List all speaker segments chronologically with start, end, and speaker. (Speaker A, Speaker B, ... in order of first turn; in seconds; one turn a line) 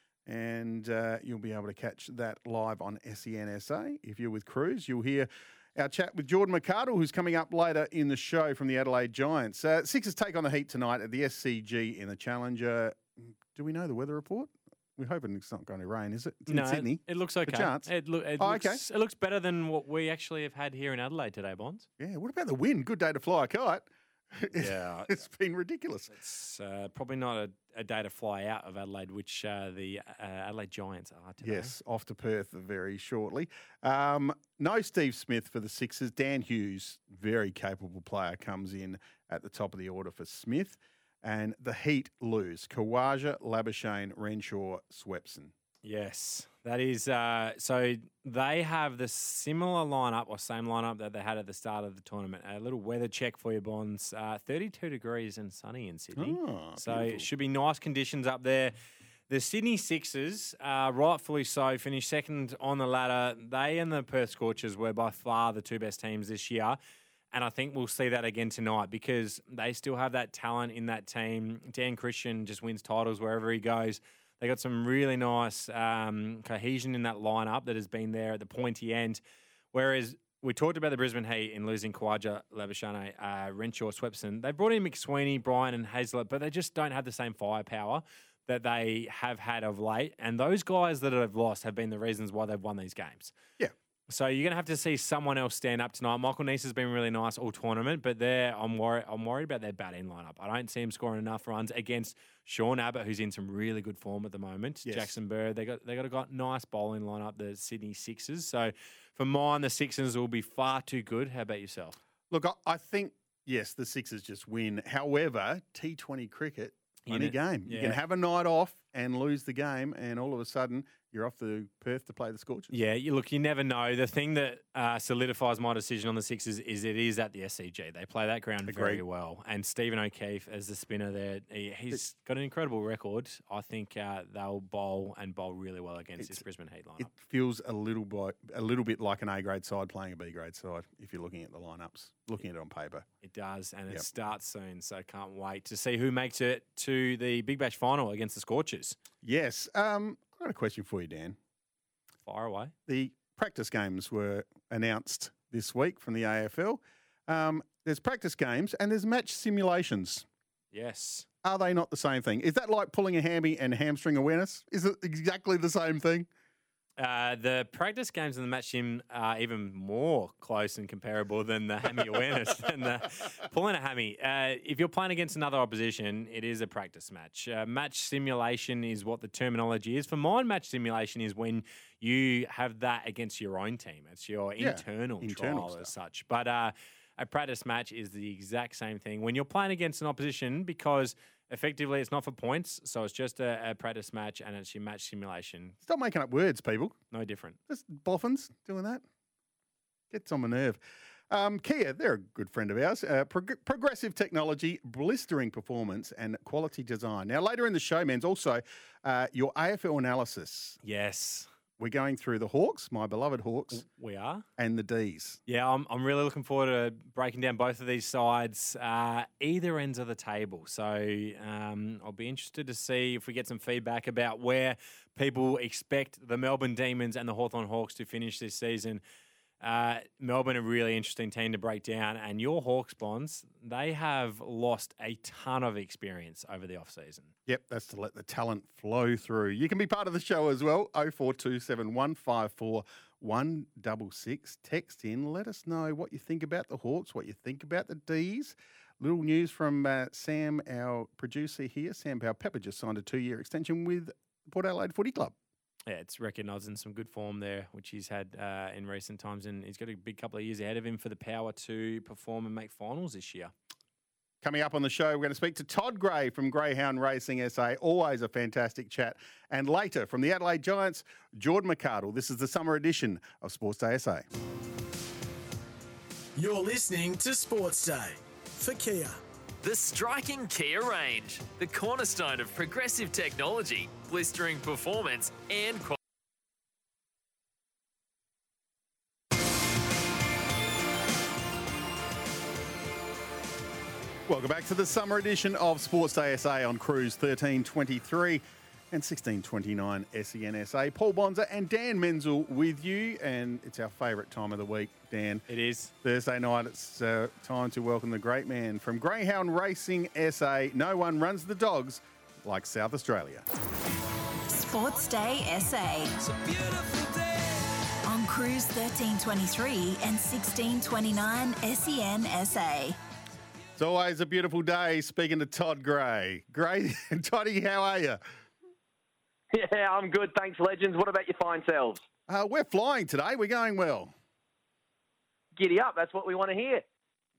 Speaker A: 0.2-18.8
Speaker B: 16.5-21.9
Speaker A: 22.0-26.1
Speaker B: 24.6-25.2
Speaker B: 26.1-31.7
Speaker A: 31.4-45.5
Speaker B: 45.8-58.7
Speaker A: 56.2-57.3
Speaker B: 59.3-66.8
Speaker B: 67.3-79.2
Speaker B: 79.7-93.3
Speaker B: 94.1-112.0
Speaker A: 104.8-105.2
Speaker A: 112.3-122.7
Speaker B: 117.1-118.0
Speaker B: 122.7-137.1
Speaker A: 128.7-129.0
Speaker A: 136.2-136.4
Speaker A: 137.0-143.1
Speaker B: 143.2-149.0
Speaker A: 149.2-151.3
Speaker B: 152.3-152.7
Speaker A: 152.9-160.3
Speaker B: 160.7-161.3
Speaker A: 161.4-166.3
Speaker B: 167.0-195.8
Speaker A: 184.6-185.9
Speaker A: 195.8-196.9
Speaker B: 197.1-197.6
Speaker A: 197.7-199.0
Speaker A: 200.1-210.8
Speaker B: 210.8-211.5
Speaker A: 211.8-213.8
Speaker B: 213.7-214.4
Speaker A: 214.6-215.4
Speaker B: 215.5-229.0
Speaker B: 229.6-237.3
Speaker A: 237.4-255.3
Speaker B: 255.9-263.5
Speaker A: 264.4-274.3
Speaker C: 276.3-279.2
Speaker D: 279.6-286.0
Speaker A: 294.3-305.4
Speaker B: 305.5-305.9
Speaker A: 306.0-313.4
Speaker E: 314.5-316.2
Speaker E: 318.0-323.0
Speaker A: 323.8-328.2
Speaker F: 329.5-332.0
Speaker A: 332.3-334.1
Speaker F: 335.6-336.8